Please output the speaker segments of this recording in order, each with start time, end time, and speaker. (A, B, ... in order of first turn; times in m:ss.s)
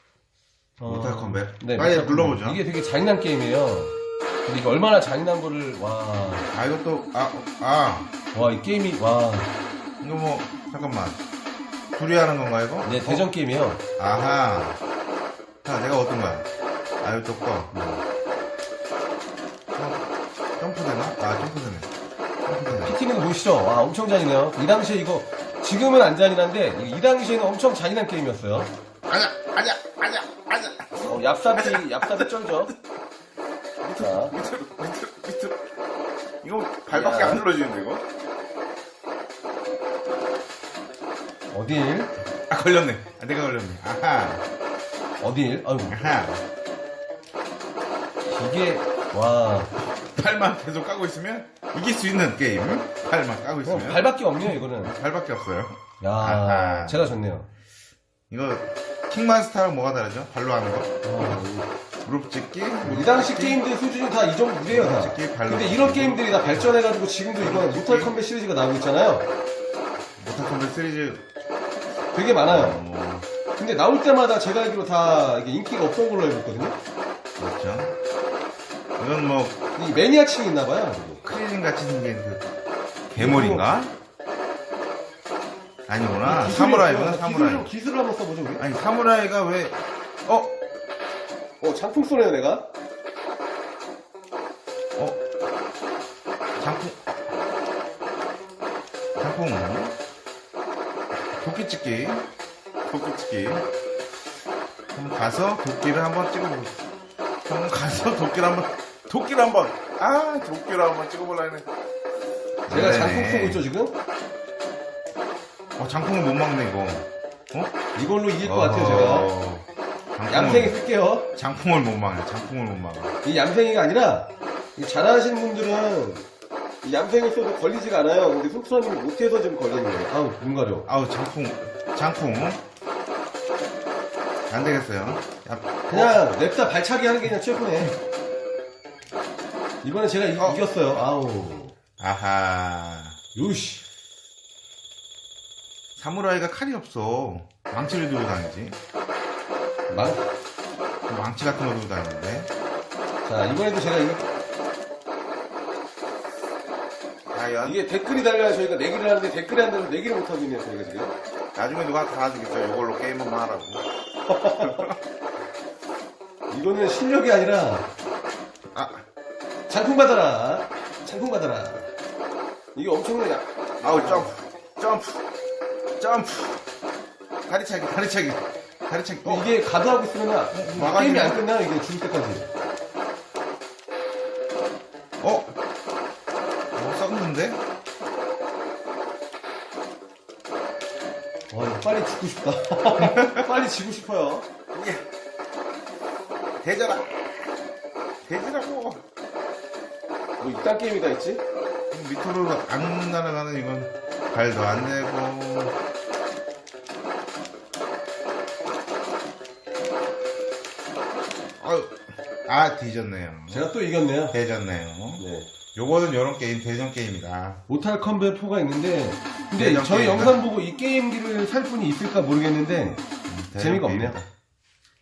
0:00.8-0:03.9 A
0:00.8-0:02.6 B
0:04.4-0:06.5 A
0:06.5-0:08.1 B
0:08.3-0:09.5 A
0:10.0-0:11.2 B
0:11.9-0:13.3 B
0:12.8-0:13.8 A
0:14.0-0:14.8 B
0:15.6-0:16.5 B
0:17.0-0:17.7 B
0:17.7-0:18.0 A
0:19.7-0:21.9 B
0:22.4-0:22.9 B
0:22.8-0:28.7 A
0:29.1-0:32.7 B
0:31.0-0:32.7 A
0:33.8-0:35.6 B
0:34.0-0:34.3 A
0:36.4-0:38.0 B
0:36.9-0:37.4 A
0:41.5-0:42.1 A
0:42.5-0:44.4 B
0:45.2-0:46.0 A
0:45.9-0:46.4 B
0:48.3-0:49.7 A
0:50.0-0:57.2 B
0:53.6-0:54.9 A
0:56.0-0:57.5 A
0:58.3-1:01.4 B
1:01.0-1:01.7 A
1:02.0-1:03.6 B
1:02.8-1:09.3 A
1:04.7-1:06.8 B
1:07.4-1:08.1 B
1:10.2-1:11.2 B
1:12.1-1:12.8 A
1:12.4-1:13.2 B
1:13.6-1:16.8 A
1:17.4-1:17.9 B
1:19.0-1:19.6 B
1:19.8-1:21.2 A
1:21.2-1:22.5 B
1:23.1-1:23.9 B
1:23.2-1:23.7 A
1:25.9-1:27.7 B
1:26.2-1:28.6 A
1:28.6-1:30.5 B
1:31.6-1:32.7 A
1:36.6-1:37.0 B
1:39.2-1:39.9 B
1:41.4-1:42.2 B
1:42.9-1:43.6 B
1:44.9-1:46.8 B
1:47.4-1:51.6 B
1:52.7-1:53.6 B
1:52.7-1:54.0 A
1:55.8-1:57.7 B
1:58.0-1:59.3 A
1:58.4-2:00.8 B
2:00.3-2:01.2 A
2:01.3-2:03.1 B
2:03.2-2:06.2 A
2:06.8-2:10.9 A
2:10.9-2:12.6 B
2:14.5-2:16.2 B
2:15.9-2:17.9 A
2:19.8-2:21.7 A
2:22.0-2:23.2 B
2:23.3-2:23.8 A
2:26.0-2:28.8 B
2:29.9-2:30.2 A
2:31.1-2:32.5 B
2:33.2-2:34.2 A
2:37.3-2:37.8 B
2:37.6-2:41.2 A
2:41.5-2:43.8 B
2:44.3-2:44.9 A
2:44.5-2:45.0 B
2:46.5-2:47.9 A
2:48.7-2:49.0 B
2:49.7-2:51.9 A
2:52.7-2:54.3 A
2:53.8-2:55.2 B
2:56.0-2:56.6 B
2:57.5-2:59.5 B
2:59.2-3:02.5 A
3:00.5-3:01.5 B
3:05.2-3:05.6 B
3:06.7-3:07.6 B
3:11.5-3:14.5 A
3:13.0-3:13.6 B
3:14.7-3:15.0 B
3:16.6-3:17.5 B
3:18.2-3:19.0 B
3:20.4-3:21.4 A
3:21.9-3:25.8 B
3:31.6-3:33.7 B
3:33.5-3:34.4 A
3:34.3-3:35.2 B
3:35.2-3:35.5 A
3:35.7-3:37.6 B
3:37.7-3:43.0 A
3:39.6-3:40.4 B
3:43.3-3:44.3 B
3:43.6-3:44.2 A